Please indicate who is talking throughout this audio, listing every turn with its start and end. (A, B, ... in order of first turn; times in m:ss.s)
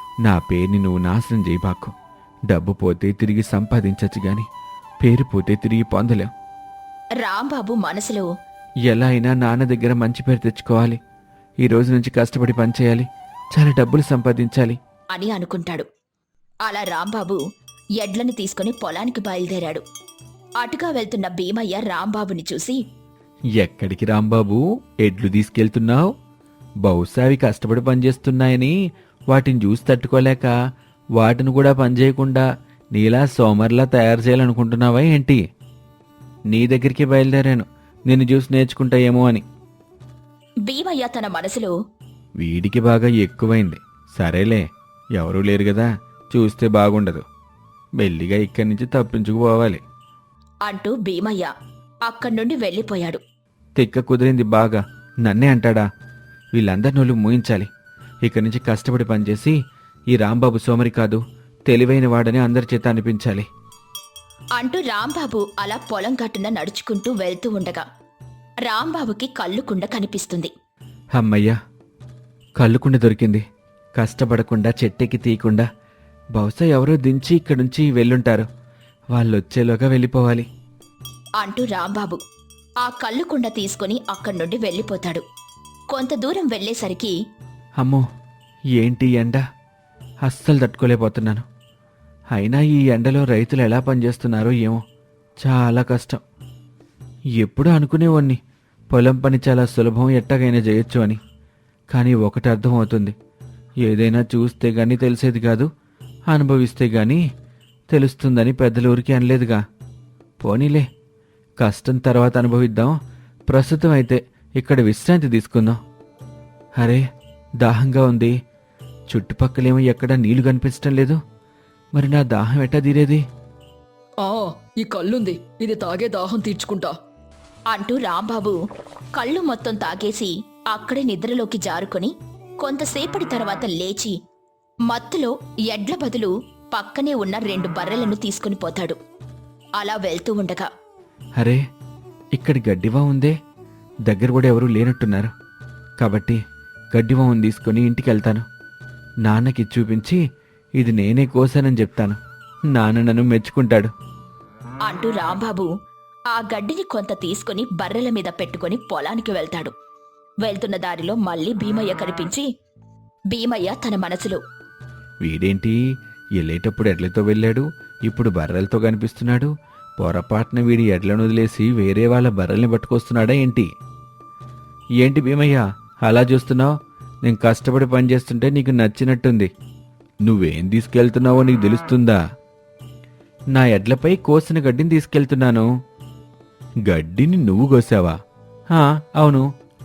0:00.2-0:01.9 A
0:02.5-0:04.4 A
0:05.0-0:06.3 A
0:07.2-0:08.3 B
0:08.8-0:11.0 A
0:11.6-0:14.8 A
0:15.1-0:15.8 B
0:16.6-0:17.4 B
0:18.0-0:19.8 B
0:20.6-0:22.8 B
0:23.6-0:26.1 A
0:26.8-0:28.7 A
0:29.3-0:30.5 A
0:31.2-0:35.4 A
0:36.5-0:39.4 A
0:40.6-0:41.7 B
0:42.4-0:47.2 A
0:48.0-0:49.8 A
0:50.6-0:51.5 B
0:52.1-0:53.2 B
0:53.8-0:55.8 A
0:56.6-0:57.7 A
0:58.2-0:59.5 A
1:00.1-1:03.4 A
1:04.6-1:07.8 B
1:08.6-1:10.5 B
1:11.2-1:11.6 A
1:12.6-1:13.4 A
1:14.0-1:15.7 A
1:16.3-1:18.5 A
1:19.1-1:20.5 A
1:21.4-1:22.2 B
1:22.8-1:25.2 B
1:25.9-1:27.1 B
1:27.8-1:28.0 A
1:28.8-1:29.4 A
1:30.2-1:31.4 A
1:32.3-1:34.8 A
1:35.4-1:36.2 A
1:37.4-1:38.4 A
1:38.9-1:41.2 A
1:41.9-1:43.1 A
1:43.8-1:45.7 A
1:46.3-1:47.2 A
1:47.9-1:49.6 A
1:50.4-1:50.9 A
1:51.6-1:53.0 A
1:53.5-1:55.8 A
1:56.8-1:57.0 A
1:57.6-1:58.3 A
1:59.1-2:01.2 A
2:01.9-2:03.2 A
2:04.2-2:06.9 C
2:07.7-2:08.6 B
2:09.1-2:14.1 B
2:14.9-2:19.0 B
2:19.8-2:20.7 B
2:22.3-2:23.4 A
2:24.0-2:25.3 A
2:26.0-2:26.4 A
2:26.9-2:28.4 A
2:29.2-2:30.2 A
2:30.8-2:32.2 A
2:32.7-2:33.9 A
2:34.8-2:35.7 B
2:36.3-2:39.7 B
2:40.4-2:42.5 B
2:43.3-2:44.4 B
2:45.2-2:45.8 A
2:46.4-2:53.7 A
2:55.0-2:56.7 A
2:57.2-2:59.5 A
3:00.2-3:02.2 A
3:03.5-3:05.7 A
3:06.8-3:08.1 A
3:08.7-3:09.4 A